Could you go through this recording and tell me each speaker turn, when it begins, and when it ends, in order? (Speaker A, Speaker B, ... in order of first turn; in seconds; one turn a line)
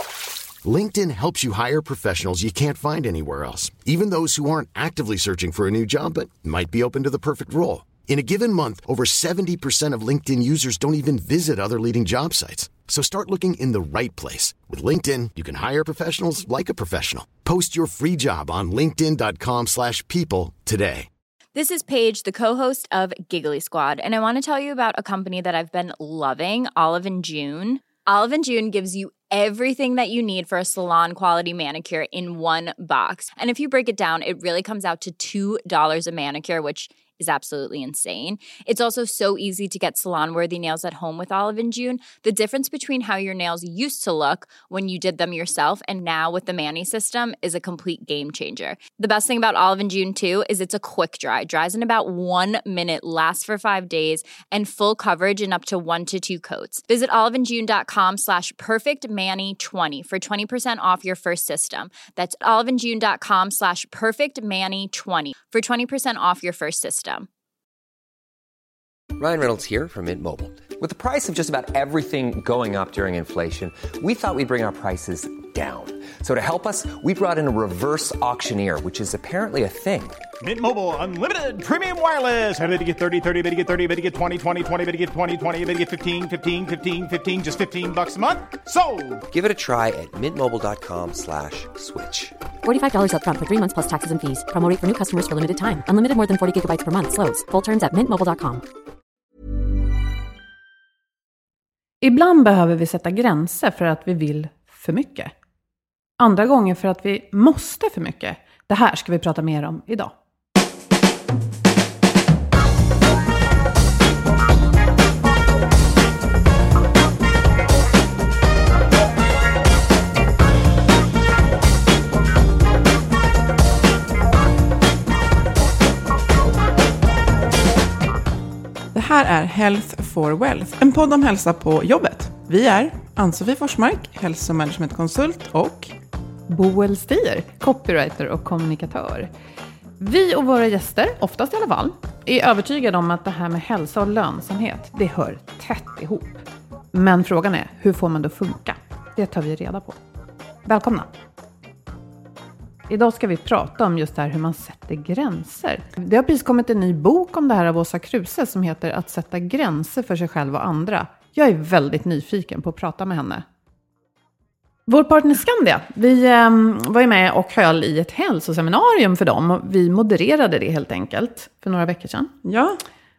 Speaker A: 0.6-21.1
Speaker B: 21.5-67.3
Speaker C: 69.2-80.2
Speaker D: 80.4-89.2
Speaker C: 89.3-92.3
Speaker E: 92.6-98.6
Speaker F: 102.0-105.3
Speaker F: 106.2-110.1
Speaker G: 128.9-135.9
Speaker F: 136.5-139.3
Speaker F: 140.0-150.0
Speaker F: 150.6-151.1
Speaker F: 152.9-163.4
Speaker F: 164.9-172.3
Speaker G: 172.4-172.8